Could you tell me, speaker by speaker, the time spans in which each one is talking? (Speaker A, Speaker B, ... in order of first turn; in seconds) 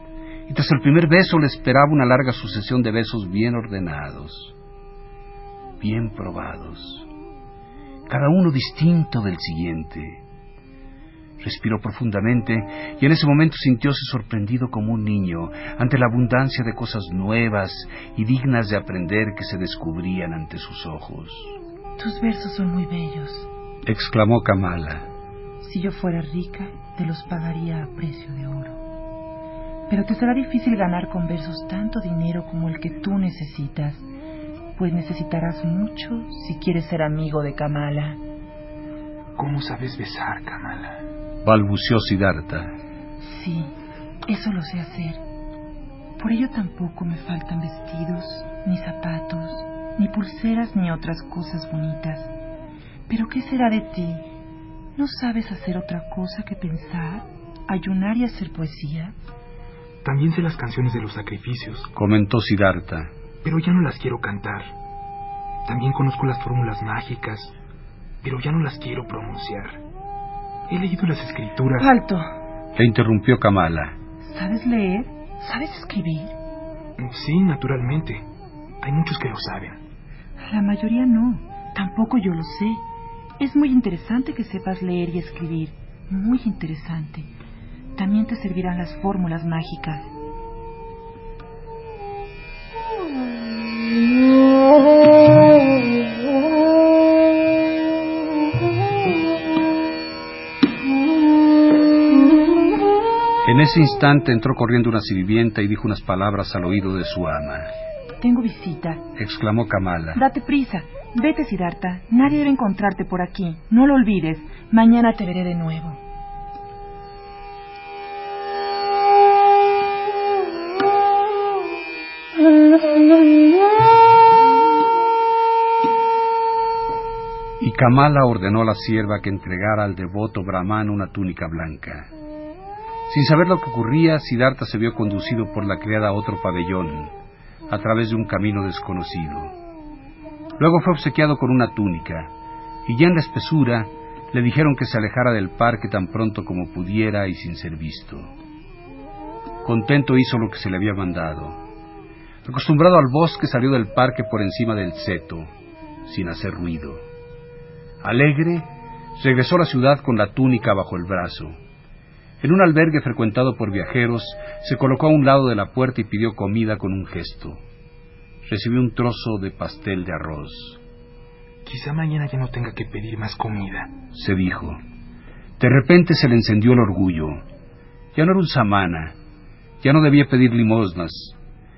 Speaker A: 0.5-4.5, 5.8-7.1, 8.1-10.2, 11.4-21.6, 23.8-25.1, 41.4-42.7, 61.9-63.1, 72.8-74.0, 103.4-107.7, 109.2-110.2, 127.6-132.1, 133.1-137.1, 137.7-139.5, 140.6-142.3, 142.8-148.3, 149.6-151.6, 152.4-155.5, 156.0-157.0, 158.0-161.6, 162.4-167.6, 168.4-170.8, 174.1-174.8, 175.6-177.4, 178.1-179.1, 179.8-181.3
Speaker B: 22.0-23.5, 25.6-28.8, 29.9-34.1, 34.8-38.2, 43.2-43.7, 44.3-45.2, 46.2-52.3, 53.1-54.2, 55.0-59.1, 71.8-72.3, 74.2-76.3, 80.4-82.8, 83.4-87.3, 88.0-90.1, 108.2-109.0, 110.1-116.0
Speaker C: 39.4-41.0, 60.0-61.9, 63.4-64.7, 65.6-67.5, 68.2-69.8, 70.7-71.9, 77.0-78.2, 78.8-79.8, 171.6-173.9